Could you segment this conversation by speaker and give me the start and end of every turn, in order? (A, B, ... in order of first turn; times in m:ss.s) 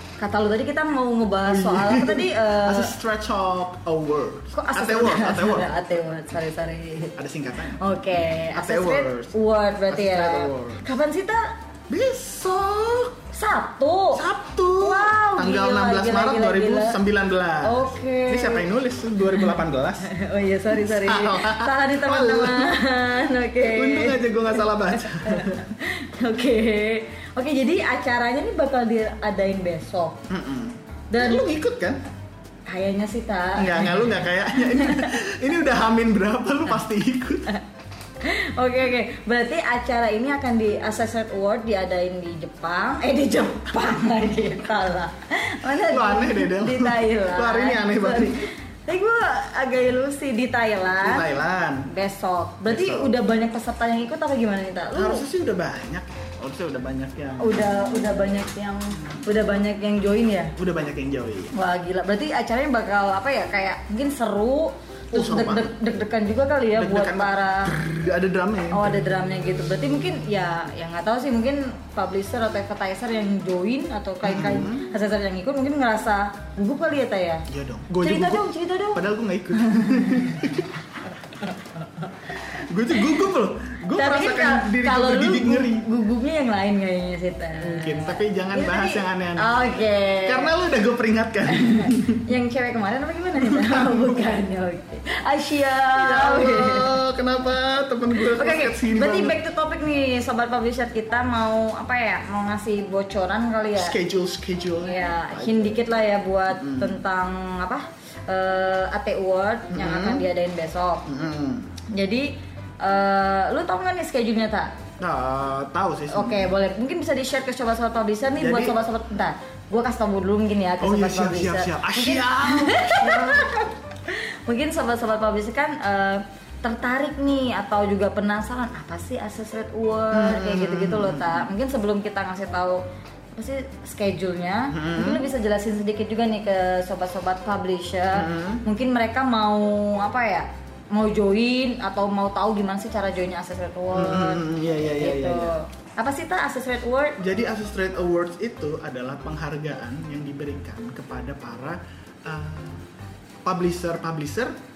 0:00.2-0:02.9 A
0:01.4-0:05.7 B
0:04.5-0:07.2 A
0:07.2-0:07.8 B
0:07.7-0:11.5 A
0:08.4-0:09.3 B
0:09.9-0:10.8 B
0:11.9-0:13.1 B
0:13.3-0:14.2 A
0:14.1-0:20.1 B
0:14.8-0:17.0 A
0:17.6-0:18.7 A
0:19.3-0:30.2 A
0:20.7-0:22.8 B
0:23.6-0:25.6 B
0:30.3-0:32.0 B
0:31.1-0:31.4 A
0:32.7-0:35.2 A
0:33.5-0:37.6 B
0:38.2-0:51.3 A
0:45.7-0:48.5 B
0:51.0-0:51.9 B
0:51.9-0:55.2 A
0:52.6-0:53.2 B
0:54.9-0:58.2 B
0:57.4-1:00.5 A
1:00.6-1:01.5 B
1:01.5-1:07.7 A
1:05.1-1:05.7 B
1:06.7-1:09.1 B
1:08.7-1:17.4 A
1:14.2-1:14.9 B
1:17.5-1:20.7 B
1:18.0-1:19.0 A
1:19.6-1:20.2 A
1:22.4-1:25.8 B
1:23.9-1:30.5 A
1:27.6-1:29.6 B
1:30.2-1:32.2 B
1:31.5-1:36.9 A
1:33.4-1:34.3 B
1:35.9-1:39.4 B
1:38.2-1:44.0 A
1:43.8-1:45.8 B
1:44.8-1:51.0 A
1:46.5-1:47.0 B
1:49.7-1:50.2 B
1:51.0-1:51.8 B
1:51.9-1:54.7 A
1:55.0-1:56.5 B
1:56.1-2:12.8 A
1:58.4-1:58.8 B
2:00.8-2:03.5 B
2:10.1-2:11.5 B
2:13.3-2:27.2 A
2:14.7-2:15.2 B
2:18.1-2:18.6 B
2:23.9-2:25.6 B
2:27.2-2:32.8 B
2:33.4-2:34.5 B